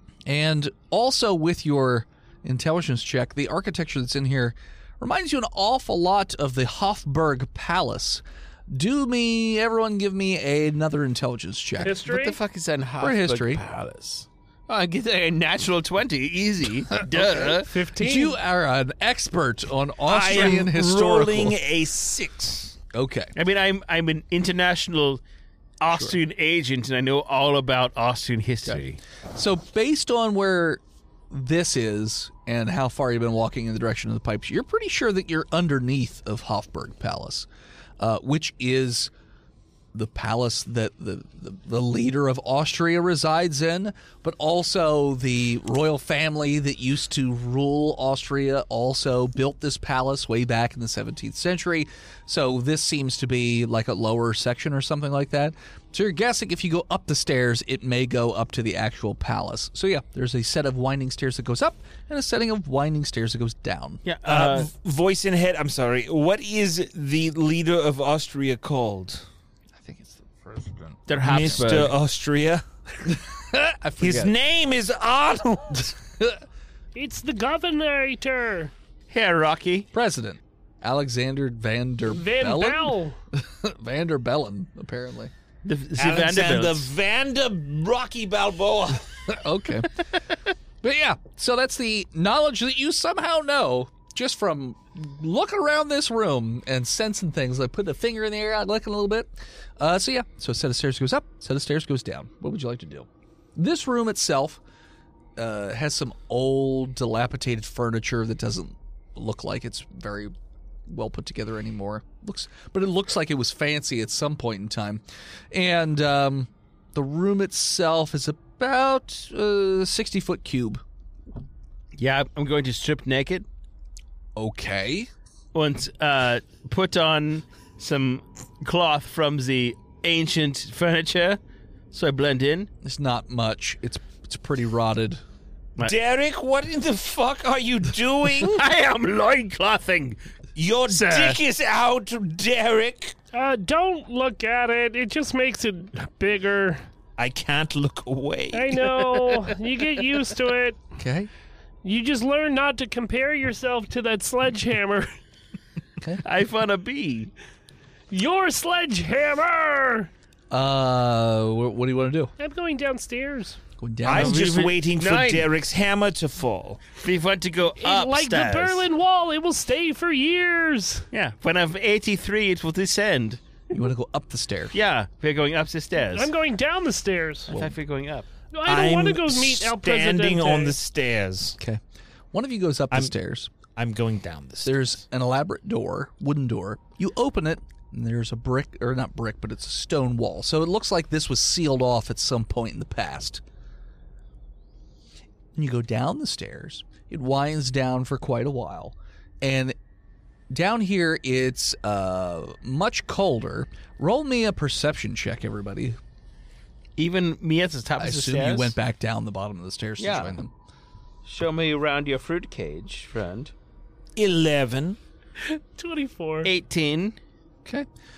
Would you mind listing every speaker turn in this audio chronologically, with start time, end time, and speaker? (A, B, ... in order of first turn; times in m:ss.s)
0:00.2-0:12.0 A
0:11.8-0:12.4 B
0:11.9-0:17.7 C
0:13.0-0:13.6 A
0:17.0-0:21.6 A
0:17.6-0:18.4 B
0:20.1-0:22.8 D
0:20.3-0:20.6 C
0:22.9-0:23.3 A
0:23.3-0:25.2 C
0:25.8-0:29.0 C
0:29.3-0:37.5 A
0:38.0-0:39.1 A
0:39.9-1:04.0 A
1:04.0-1:04.7 C
1:04.2-1:09.2 D
1:09.7-1:11.6 A
1:11.1-1:11.9 C
1:11.2-1:12.6 D
1:13.0-1:14.3 A
1:14.0-1:15.9 D
1:15.7-1:16.4 A
1:16.9-1:18.7 B
1:19.1-1:19.9 C
1:19.9-1:25.3 A
1:22.1-1:23.2 B
1:25.6-1:26.9 C
1:26.0-1:29.2 D
1:29.3-1:30.0 A
1:30.8-1:44.6 A
1:45.4-1:50.3 A
1:50.9-2:00.8 A
2:01.9-2:03.4 C
2:04.4-2:05.1 A
2:05.5-2:11.4 C
2:11.9-2:12.7 C
2:12.8-2:15.2 A
2:15.8-2:18.6 D
2:18.4-2:20.2 C
2:20.5-2:23.2 D
2:20.9-2:21.4 C
2:23.3-2:26.8 B
2:27.2-2:28.7 D
2:28.5-2:30.8 B
2:28.8-2:29.5 C
2:31.0-2:31.3 A
2:31.8-2:35.1 B
2:36.2-2:37.3 C
2:38.1-2:40.1 B
2:40.5-2:42.3 A
2:42.4-2:43.6 B
2:43.8-2:44.5 A
2:44.0-2:46.9 D
2:44.0-2:45.5 C
2:47.0-2:48.8 C
2:47.8-2:51.1 B
2:51.1-2:53.4 C
2:53.7-2:54.8 A
2:54.7-2:56.3 C
2:56.1-2:57.5 B
2:57.5-2:57.8 A
2:57.5-2:58.3 C
2:58.5-3:00.8 B
2:58.6-3:01.6 D
3:02.3-3:03.5 A
3:03.8-3:05.0 D
3:04.6-3:13.4 A
3:15.5-3:19.7 A
3:20.5-3:26.0 A
3:27.0-3:28.7 C
3:28.0-3:30.5 A
3:30.0-3:30.3 C
3:31.2-3:33.5 C
3:34.2-3:35.0 D
3:35.5-3:36.5 B
3:36.4-3:37.2 C